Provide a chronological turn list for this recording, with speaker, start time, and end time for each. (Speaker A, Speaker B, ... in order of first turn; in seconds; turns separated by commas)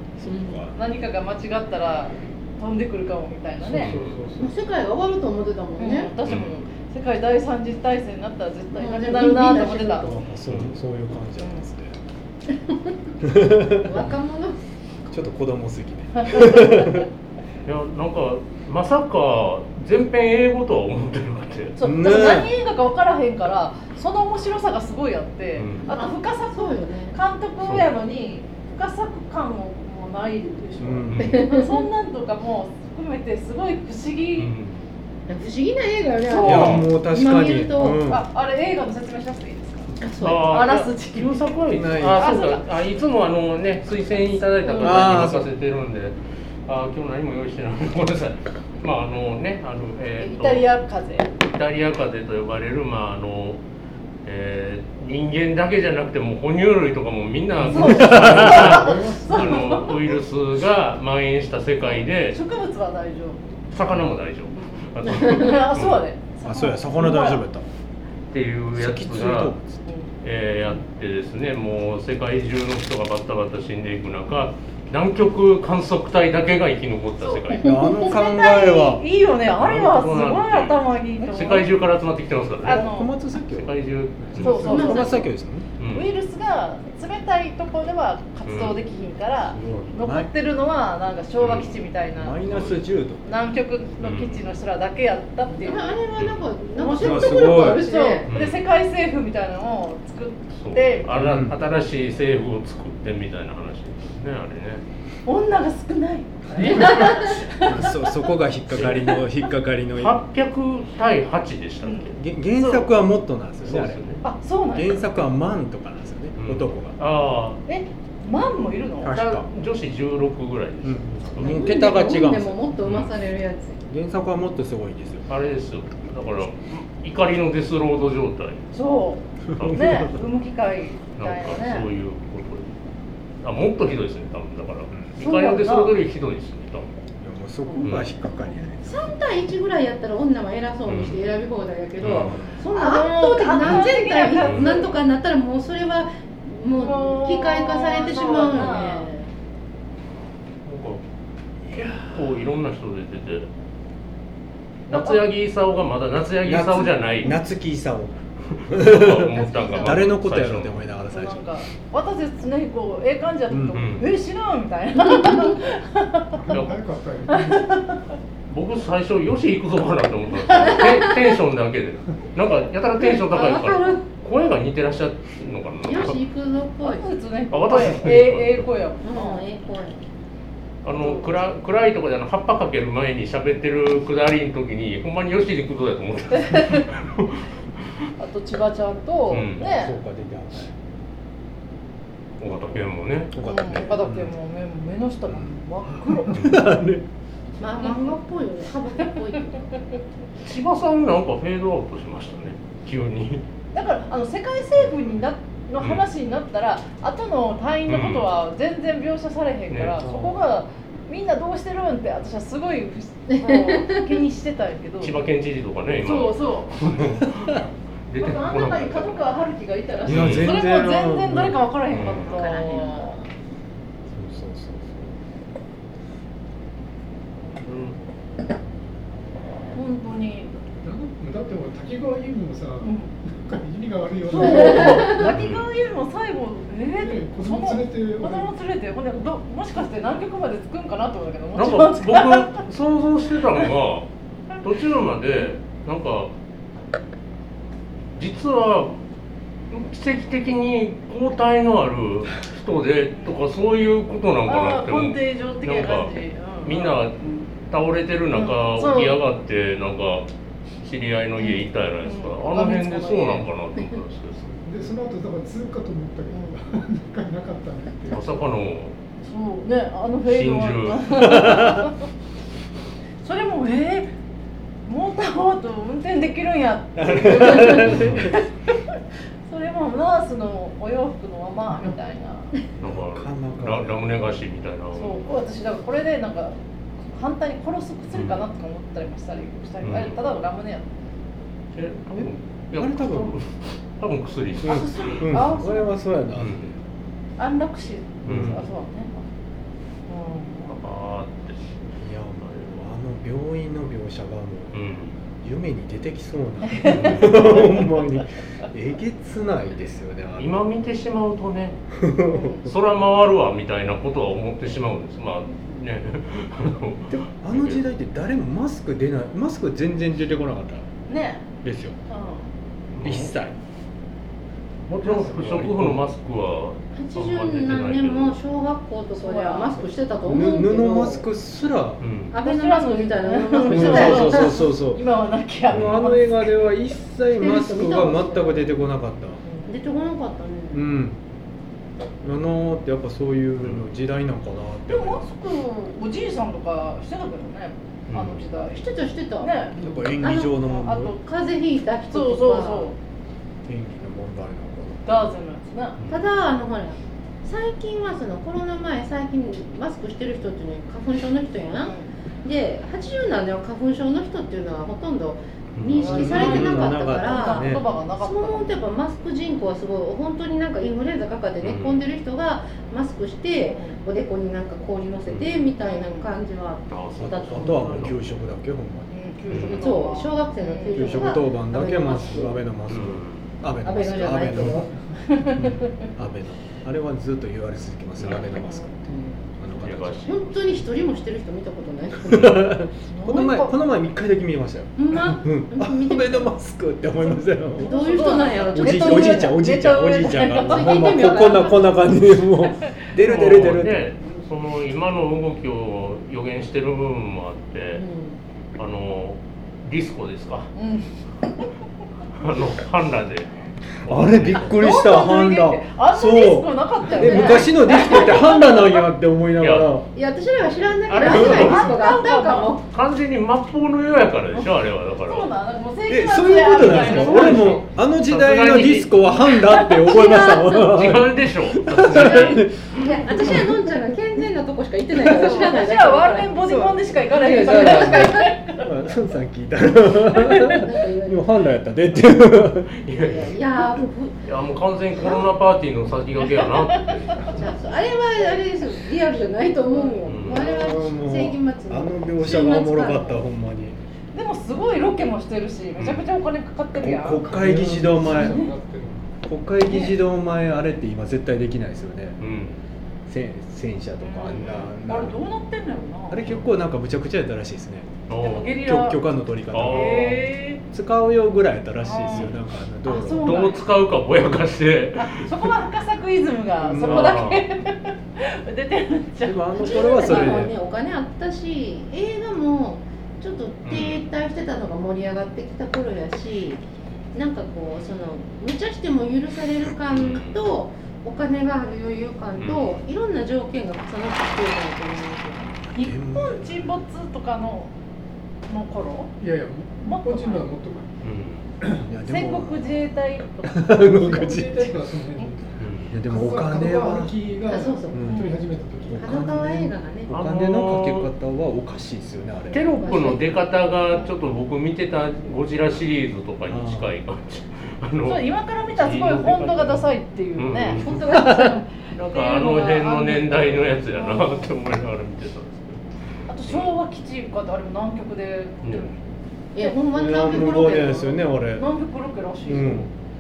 Speaker A: 0.2-0.8, Speaker B: 0.2-0.6, Speaker C: 0.7-4.0, Speaker D: 3.6-4.5, Speaker E: 3.8-4.2, Speaker B: 4.4-6.1, Speaker C: 5.8-10.1, Speaker E: 6.2-6.7, Speaker B: 8.8-10.2, Speaker A: 10.0-11.9, Speaker E: 10.5-10.8, Speaker B: 12.5-13.1, Speaker A: 13.2-14.1, Speaker B: 13.7-14.6, Speaker A: 15.1-17.1, Speaker C: 16.2-16.8, Speaker E: 17.6-21.8, Speaker C: 21.8-34.5, Speaker A: 21.8-22.5, Speaker E: 25.6-25.9, Speaker B: 25.9-27.2, Speaker A: 30.8-31.3, Speaker E: 31.1-31.4, Speaker B: 31.2-31.8, Speaker E: 34.4-34.9, Speaker B: 35.3-38.0, Speaker C: 36.2-36.8, Speaker A: 36.4-38.3, Speaker E: 36.4-36.9, Speaker C: 38.1-41.5, Speaker B: 40.0-40.6, Speaker E: 40.2-50.7, Speaker A: 41.7-42.3, Speaker C: 42.1-42.7, Speaker C: 44.6-45.1, Speaker A: 44.8-45.5, Speaker C: 50.2-51.3, Speaker E: 51.4-53.6, Speaker E: 54.2-62.4, Speaker A: 57.6-59.7, Speaker C: 57.6-60.0, Speaker C: 61.9-63.4, Speaker E: 63.7-66.0, Speaker C: 64.7-67.4, Speaker A: 66.4-67.7, Speaker E: 68.3-69.6, Speaker A: 68.8-69.8, Speaker C: 69.9-70.1, Speaker E: 70.2-77.7, Speaker B: 77.6-78.1, Speaker A: 77.6-79.0, Speaker C: 77.7-81.7, Speaker E: 79.6-82.9, Speaker C: 82.6-83.1, Speaker A: 82.6-83.7, Speaker E: 83.5-84.8, Speaker D: 84.3-85.0, Speaker A: 84.3-85.7, Speaker C: 84.4-85.3, Speaker B: 84.6-85.3, Speaker E: 85.8-86.2, Speaker C: 85.9-92.4, Speaker E: 88.5-88.8, Speaker A: 89.5-90.3, Speaker E: 91.4-91.8, Speaker A: 92.2-93.3, Speaker E: 92.5-92.8, Speaker C: 93.2-96.0, Speaker E: 94.0-94.4, Speaker B: 95.5-98.2, Speaker E: 96.2-96.5, Speaker C: 96.7-101.3, Speaker A: 97.0-97.9, Speaker E: 98.3-98.6, Speaker E: 100.6-104.8, Speaker A: 101.2-101.6, Speaker C: 105.3-108.2, Speaker E: 106.5-107.6, Speaker A: 107.6-110.2, Speaker E: 108.7-109.1, Speaker E: 110.0-112.2, Speaker A: 112.2-114.0, Speaker C: 112.6-112.9, Speaker E: 113.6-114.2, Speaker C: 114.2-115.0, Speaker A: 114.7-117.0, Speaker E: 116.4-117.6, Speaker C: 117.7-119.2, Speaker A: 119.0-119.5, Speaker E: 119.1-121.6, Speaker A: 120.8-122.8, Speaker B: 121.4-123.8, Speaker E: 122.8-123.1, Speaker A: 123.9-125.3, Speaker E: 125.3-128.6, Speaker C: 128.7-131.9, Speaker A: 129.5-130.2, Speaker E: 129.6-130.1, Speaker E: 131.2-132.8, Speaker E: 133.4-136.9, Speaker C: 135.2-135.9, Speaker A: 137.2-139.1, Speaker C: 137.7-138.0, Speaker E: 137.8-138.1, Speaker B: 138.8-149.3, Speaker E: 140.9-141.2, Speaker E: 142.0-142.4, Speaker A: 142.1-142.6, Speaker C: 142.7-144.9, Speaker E: 144.4-144.8, Speaker C: 146.8-149.1, Speaker E: 150.7-151.0, Speaker A: 151.7-152.2, Speaker E: 151.7-153.5, Speaker C: 154.9-155.2, Speaker E: 154.9-157.4, Speaker A: 156.4-158.2, Speaker E: 158.5-160.8, Speaker A: 158.7-161.4, Speaker C: 159.4-159.9, Speaker C: 161.1-166.5, Speaker A: 163.5-163.8, Speaker E: 163.7-164.1, Speaker B: 165.1-165.6, Speaker D: 166.4-167.9, Speaker E: 166.5-166.8, Speaker C: 167.3-168.0, Speaker E: 168.5-176.2, Speaker C: 170.4-171.0, Speaker B: 173.0-174.0, Speaker B: 175.8-177.1, Speaker C: 176.8-179.4, Speaker E: 177.5-178.7, Speaker B: 179.0-180.0, Speaker E: 180.8-187.9, Speaker C: 180.9-181.4, Speaker C: 186.3-186.9, Speaker C: 188.2-190.0, Speaker E: 189.3-189.7, Speaker A: 189.6-190.7, Speaker E: 192.4-193.3, Speaker A: 193.3-194.3, Speaker C: 193.4-196.6, Speaker A: 196.2-197.0, Speaker B: 197.6-199.8, Speaker C: 197.8-198.2, Speaker E: 200.4-203.4, Speaker C: 203.7-215.2, Speaker E: 205.8-206.1, Speaker E: 207.9-208.3, Speaker E: 209.7-210.0, Speaker A: 210.0-210.4, Speaker B: 213.3-214.2, Speaker E: 215.0-219.2, Speaker C: 216.0-217.1, Speaker C: 218.2-223.2, Speaker A: 220.1-221.6, Speaker E: 220.1-220.5, Speaker E: 221.9-222.3, Speaker B: 222.0-223.3, Speaker A: 224.1-225.2, Speaker E: 227.6-228.0, Speaker C: 229.8-230.5, Speaker D: 230.7-235.2, Speaker C: 232.8-233.1, Speaker C: 234.3-242.6, Speaker B: 234.4-235.3, Speaker E: 235.2-235.7, Speaker D: 236.9-238.5, Speaker E: 241.6-244.1, Speaker E: 244.6-246.3, Speaker E: 248.2-249.0, Speaker E: 249.7-260.3, Speaker C: 254.5-257.0, Speaker C: 258.3-259.2, Speaker E: 260.8-264.5, Speaker C: 261.4-263.5, Speaker D: 264.6-268.3, Speaker C: 266.3-266.6, Speaker E: 268.1-269.0, Speaker C: 269.2-272.0, Speaker E: 270.3-271.3, Speaker A: 271.1-271.9, Speaker C: 273.2-274.1, Speaker C: 274.9-278.4, Speaker A: 277.0-278.4, Speaker E: 277.8-278.3, Speaker C: 279.5-282.5, Speaker E: 282.8-285.3, Speaker A: 282.8-284.0, Speaker C: 285.0-290.9, Speaker E: 288.1-288.4, Speaker E: 289.8-290.2, Speaker E: 291.8-295.2, Speaker A: 292.1-293.3, Speaker C: 294.6-296.0, Speaker A: 294.6-296.9, Speaker E: 296.4-296.7, Speaker C: 297.4-299.2, Speaker E: 298.2-298.7, Speaker A: 298.3-298.6, Speaker C: 300.1-300.8, Speaker E: 300.7-301.8, Speaker A: 302.0-304.8, Speaker E: 302.4-302.7, Speaker E: 304.7-305.2, Speaker A: 305.4-310.6, Speaker C: 306.6-307.9, Speaker E: 306.9-307.7, Speaker E: 310.4-311.8, Speaker A: 311.9-312.7, Speaker C: 312.3-312.7, Speaker E: 312.7-317.8, Speaker A: 317.1-320.9, Speaker C: 321.1-321.4, Speaker A: 321.6-322.0, Speaker C: 322.1-322.5, Speaker E: 322.9-323.4, Speaker A: 323.0-323.6, Speaker E: 324.9-328.4, Speaker A: 325.0-326.0, Speaker B: 326.9-331.2, Speaker C: 329.1-329.9, Speaker A: 330.2-332.0, Speaker E: 332.0-332.4, Speaker B: 332.3-334.6, Speaker C: 332.4-336.8, Speaker A: 333.6-335.0, Speaker A: 335.7-339.4, Speaker E: 335.7-336.0, Speaker B: 337.4-338.7, Speaker B: 339.7-340.9, Speaker A: 340.7-341.2, Speaker A: 342.2-345.2, Speaker C: 344.9-349.9, Speaker E: 348.1-348.4, Speaker B: 348.7-352.9, Speaker A: 349.8-351.1, Speaker C: 350.7-351.2, Speaker C: 352.1-353.0, Speaker A: 353.7-355.1, Speaker C: 355.1-356.0, Speaker E: 356.0-356.2, Speaker B: 356.1-378.1, Speaker C: 361.8-362.1, Speaker E: 365.8-366.6, Speaker C: 366.0-368.8, Speaker A: 366.0-367.8, Speaker E: 371.6-372.0, Speaker C: 373.6-374.0, Speaker E: 375.3-375.7, Speaker C: 375.8-376.3, Speaker E: 376.9-378.3, Speaker A: 377.2-379.7, Speaker C: 379.1-381.4, Speaker E: 379.5-379.8, Speaker B: 379.7-382.6, Speaker A: 380.9-384.9, Speaker E: 382.9-383.5, Speaker B: 383.8-384.9, Speaker C: 385.3-385.9, Speaker A: 385.6-390.3, Speaker C: 388.4-388.9, Speaker B: 389.1-389.4, Speaker E: 389.8-390.6, Speaker B: 390.2-392.8, Speaker A: 392.3-397.9, Speaker C: 393.1-393.7, Speaker B: 395.0-396.5, Speaker B: 397.8-399.6, Speaker C: 397.8-401.7, Speaker A: 398.7-404.0, Speaker B: 400.5-402.0, Speaker E: 403.1-408.0, Speaker B: 407.9-408.4, Speaker E: 408.8-410.7, Speaker C: 410.8-411.1, Speaker E: 412.4-414.8, Speaker A: 414.1-420.1, Speaker C: 414.6-419.1, Speaker B: 417.2-418.4, Speaker E: 419.6-419.9, Speaker B: 420.1-422.8, Speaker E: 421.1-421.9, Speaker C: 421.1-422.8, Speaker A: 421.3-421.6, Speaker E: 422.9-425.5, Speaker C: 424.5-427.8, Speaker A: 426.1-433.8, Speaker E: 426.8-429.1, Speaker B: 429.8-431.0, Speaker E: 430.8-432.7, Speaker B: 432.1-438.6, Speaker C: 435.2-438.9, Speaker A: 436.6-443.0, Speaker C: 440.4-440.8, Speaker B: 440.6-441.5, Speaker E: 442.9-443.6, Speaker B: 443.2-444.4, Speaker E: 444.4-447.6, Speaker B: 445.2-445.5, Speaker C: 446.4-447.5, Speaker B: 447.5-453.4, Speaker C: 449.9-450.2, Speaker E: 450.2-450.7, Speaker A: 450.5-454.0, Speaker C: 454.3-457.5, Speaker E: 456.0-456.2, Speaker A: 457.0-458.6, Speaker D: 457.4-459.3, Speaker C: 458.2-458.7, Speaker A: 459.4-462.4, Speaker C: 459.8-460.2, Speaker E: 462.4-462.8, Speaker A: 463.3-465.4, Speaker C: 464.2-466.5, Speaker A: 466.3-468.1, Speaker E: 468.3-468.8, Speaker C: 468.4-469.2, Speaker A: 468.8-470.4, Speaker E: 469.7-470.4, Speaker C: 469.8-470.8, Speaker A: 470.9-473.6, Speaker C: 472.0-472.5, Speaker C: 473.1-473.9, Speaker E: 473.3-475.7, Speaker C: 475.2-480.7, Speaker A: 476.8-477.4, Speaker E: 477.0-477.6, Speaker A: 479.4-480.8, Speaker B: 479.7-486.8, Speaker E: 483.9-484.2, Speaker B: 487.4-495.8, Speaker E: 490.1-490.7, Speaker E: 492.6-493.0, Speaker A: 495.9-496.9, Speaker C: 496.0-497.9, Speaker C: 498.7-499.3, Speaker D: 499.4-501.1, Speaker C: 500.0-500.7, Speaker E: 501.2-501.7, Speaker D: 501.8-502.1, Speaker A: 502.0-503.0, Speaker C: 502.2-505.5, Speaker A: 503.6-504.9, Speaker D: 504.4-509.4, Speaker E: 505.8-506.1, Speaker A: 506.1-507.3, Speaker B: 507.7-508.5, Speaker A: 508.1-508.5, Speaker C: 508.3-508.6, Speaker A: 509.1-513.0, Speaker B: 509.2-510.3, Speaker E: 510.3-511.3, Speaker E: 512.7-521.3, Speaker B: 513.0-513.5, Speaker A: 516.7-517.1, Speaker C: 518.3-524.7, Speaker B: 521.0-521.8, Speaker A: 521.2-521.8, Speaker E: 522.1-526.0, Speaker C: 526.5-529.2, Speaker E: 526.7-526.9, Speaker E: 528.8-529.1, Speaker B: 529.7-531.3, Speaker C: 529.8-533.1, Speaker A: 530.1-531.9, Speaker A: 532.7-533.1